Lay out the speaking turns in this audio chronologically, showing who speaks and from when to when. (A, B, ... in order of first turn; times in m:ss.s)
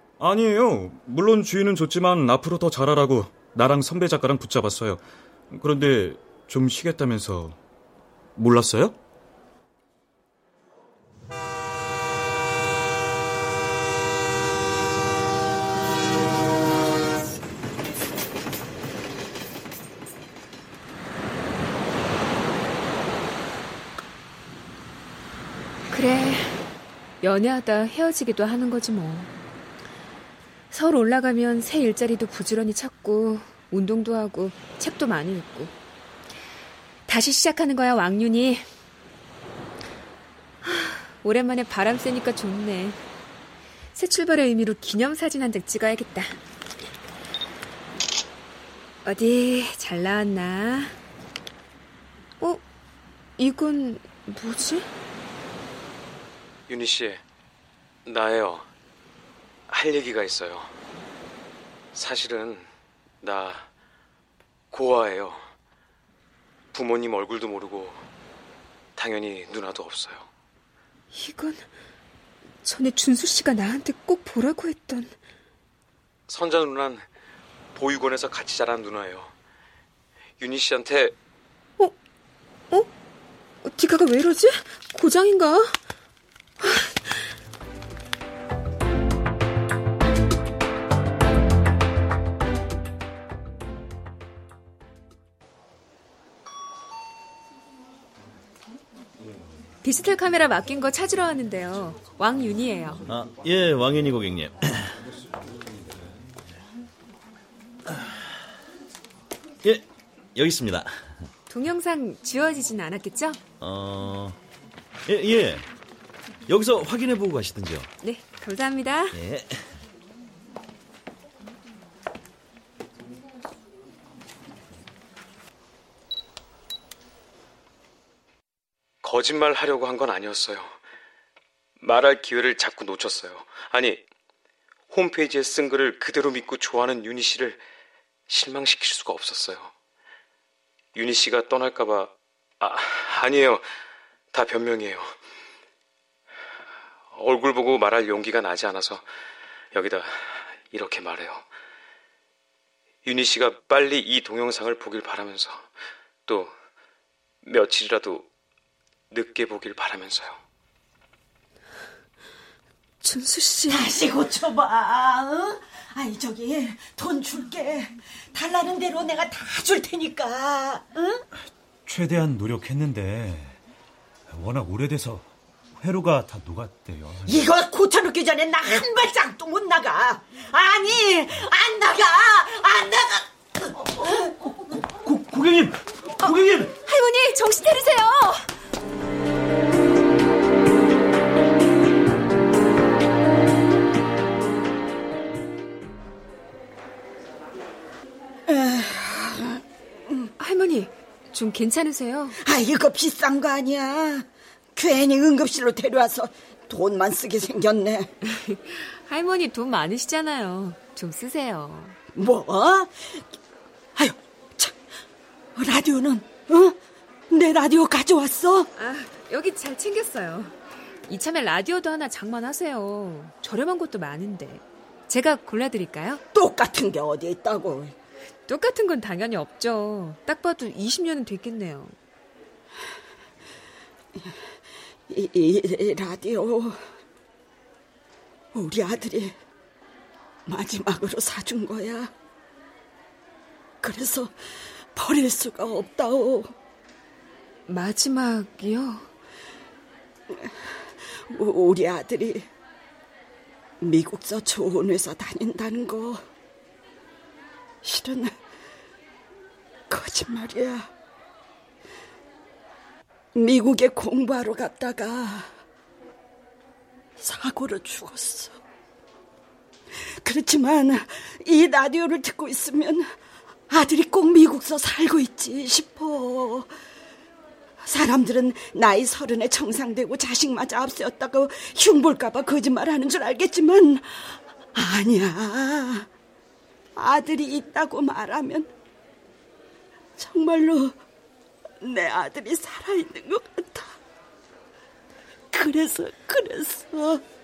0:00.2-0:07.6 A
0:08.4-0:09.0 A
0:25.9-0:26.6 B
0:27.2-0:29.3 B
0:30.7-0:35.7 B
0:37.1-0:38.6 B
0:40.6-0:43.0 B
0:43.9-0:46.4 B
0:49.0-0:50.9 B
0:53.4-0:54.9 B
0:56.7-0:57.2 C
0:58.0-0:58.7 C
0:59.7-1:00.7 C
1:01.9-1:02.7 C
1:03.2-1:03.7 C
1:04.7-1:05.5 C
1:06.7-1:08.0 C
1:09.0-1:10.3 C
1:11.1-1:11.7 B
1:12.6-1:15.1 B
1:16.3-1:17.1 C
1:17.7-1:19.3 C
1:20.4-1:21.1 C
1:23.6-1:25.7 B
1:26.6-1:27.2 B
1:39.8-1:43.0 B
1:43.0-1:44.9 D
1:49.6-1:51.0 D
1:51.5-1:53.4 B
1:53.6-1:54.4 D
1:55.0-1:55.7 D
1:56.5-1:57.9 D
1:58.0-1:59.2 B
1:59.1-1:59.6 D
2:09.0-2:10.7 C
2:11.8-2:14.0 C
2:14.9-2:17.6 C
2:18.3-2:19.7 C
2:20.9-2:23.6 C
2:24.3-2:25.1 C
2:27.1-2:29.0 C
2:29.7-2:31.4 C
2:33.0-2:35.7 C
2:36.3-2:36.5 C
2:37.4-2:38.2 C
2:39.1-2:40.4 C
2:43.0-2:43.8 B
2:43.7-2:51.2 E
2:51.8-2:53.6 F
2:54.3-2:57.4 F
2:57.2-3:04.1 E
3:05.0-3:06.7 F
3:06.8-3:08.5 B
3:18.5-3:20.3 E
3:20.4-3:22.4 B
3:22.4-3:28.1 E
3:28.2-3:32.0 B
3:32.1-3:33.2 E
3:34.0-3:34.8 E
3:35.6-3:36.8 E
3:37.3-3:38.7 E
3:38.8-3:40.5 B
3:41.1-3:46.2 B
3:46.3-3:47.9 E
3:48.5-3:52.0 B
3:55.1-3:56.8 E
3:58.5-3:59.4 E
4:00.4-4:02.1 E
4:03.8-4:04.3 E
4:04.9-4:06.5 E
4:07.7-4:09.1 B
4:10.3-4:12.5 E
4:13.8-4:16.2 E
4:17.8-4:18.4 E
4:19.9-4:20.9 E
4:23.3-4:25.5 E
4:27.2-4:28.6 E
4:30.0-4:33.1 E
4:33.7-4:36.7 E
4:37.8-4:46.1 E
4:47.0-4:48.7 E
4:50.2-4:51.0 E
4:51.8-4:54.0 E
4:55.5-4:57.2 E